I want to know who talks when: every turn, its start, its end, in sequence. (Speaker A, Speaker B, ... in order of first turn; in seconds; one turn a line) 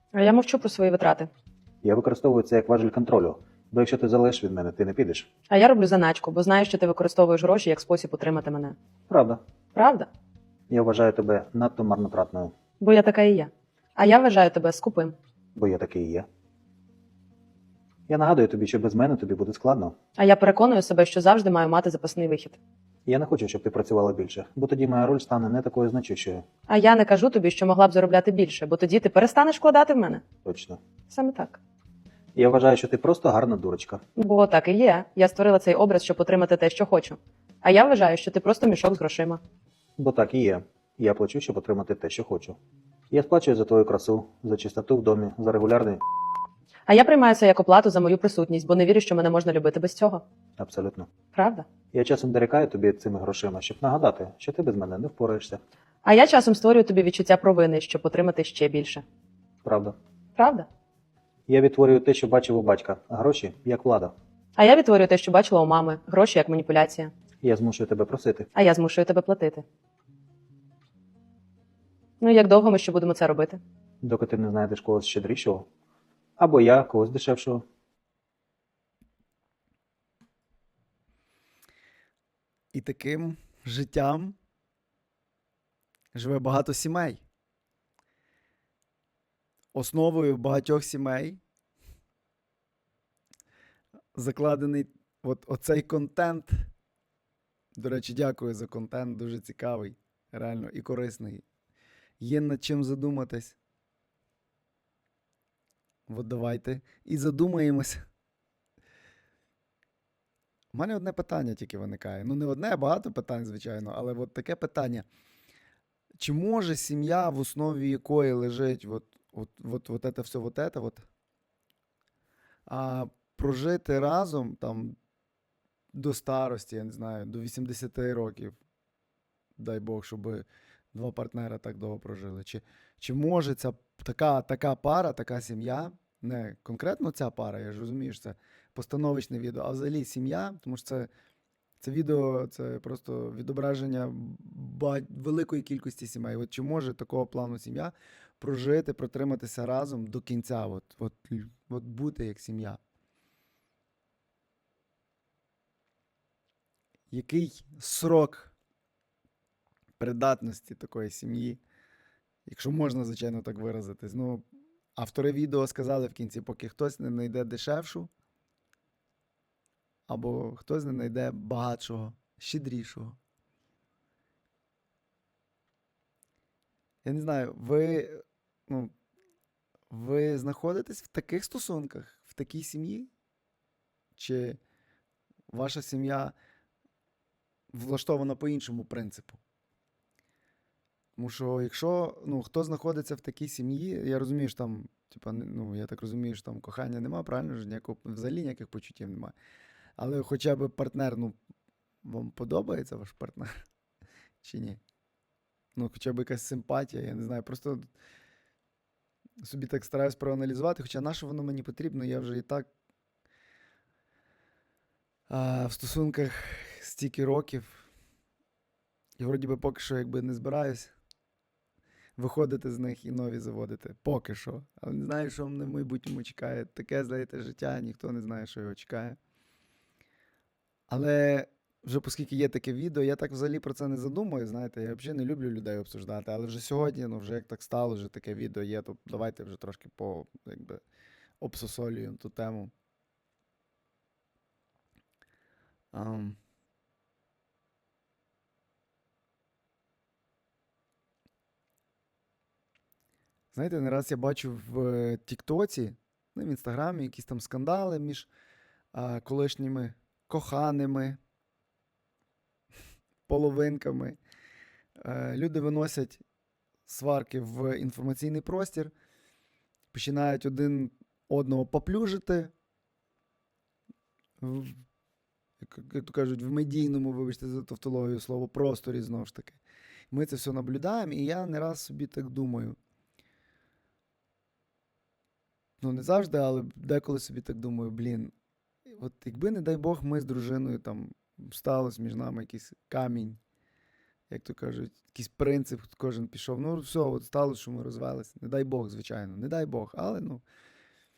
Speaker A: 0.1-1.3
Speaker B: 1.8-5.3
Speaker A: 5.5-8.8
Speaker B: 9.1-9.4
Speaker A: 9.7-10.1
Speaker B: 10.7-12.5
Speaker A: 12.8-15.1
Speaker B: 15.5-16.3
Speaker B: 18.1-19.9
Speaker A: 20.2-22.6
Speaker B: 23.1-26.4
Speaker A: 26.7-30.2
Speaker B: 30.4-30.8
Speaker A: 31.1-31.6
Speaker B: 32.3-34.0
Speaker A: 34.1-39.4
Speaker B: 40.0-42.6
Speaker B: 43.1-46.0
Speaker A: 46.9-50.2
Speaker B: 50.6-51.1
Speaker A: 51.3-51.6
Speaker B: 51.9-55.6
Speaker A: 56.0-59.0
Speaker B: 59.6-60.0
Speaker A: 60.4-60.7
Speaker B: 61.5-64.1
Speaker A: 64.6-67.1
Speaker B: 67.4-68.5
Speaker A: 68.5-69.6
Speaker A: 72.2-73.6
Speaker B: 74.0-75.7
Speaker B: 76.4-77.6
Speaker C: 82.7-84.4
Speaker C: 86.1-87.2
Speaker C: 89.7-91.4
Speaker C: 94.1-96.7
Speaker C: 97.8-101.4
Speaker C: 102.2-103.5
Speaker C: 106.1-108.0
Speaker C: 110.7-115.0
Speaker C: 116.2-121.0
Speaker C: 122.7-125.0
Speaker C: 125.9-128.6
Speaker C: 129.6-141.1
Speaker C: 141.8-152.8
Speaker C: 157.1-158.5
Speaker C: 160.0-161.6
Speaker C: 162.4-168.1
Speaker C: 170.1-173.2
Speaker C: 177.0-178.9
Speaker C: 179.9-183.1
Speaker C: 184.1-184.6
Speaker C: 185.5-186.3
Speaker C: 187.7-189.4
Speaker C: 191.2-199.3
Speaker C: 200.0-201.4
Speaker C: 202.0-203.5
Speaker C: 204.4-204.8
Speaker C: 205.7-207.8
Speaker C: 209.4-212.7
Speaker C: 215.3-217.9
Speaker C: 219.2-220.9
Speaker C: 222.2-229.2
Speaker C: 230.9-240.8
Speaker C: 241.4-242.7
Speaker C: 245.9-246.4
Speaker C: 253.5-258.3
Speaker C: 258.9-261.2
Speaker C: 263.3-264.2
Speaker C: 265.0-266.2
Speaker C: 266.9-268.9
Speaker C: 269.9-272.5
Speaker C: 274.4-274.8
Speaker C: 275.6-282.8
Speaker C: 285.8-288.3
Speaker C: 288.9-293.4
Speaker C: 294.3-300.4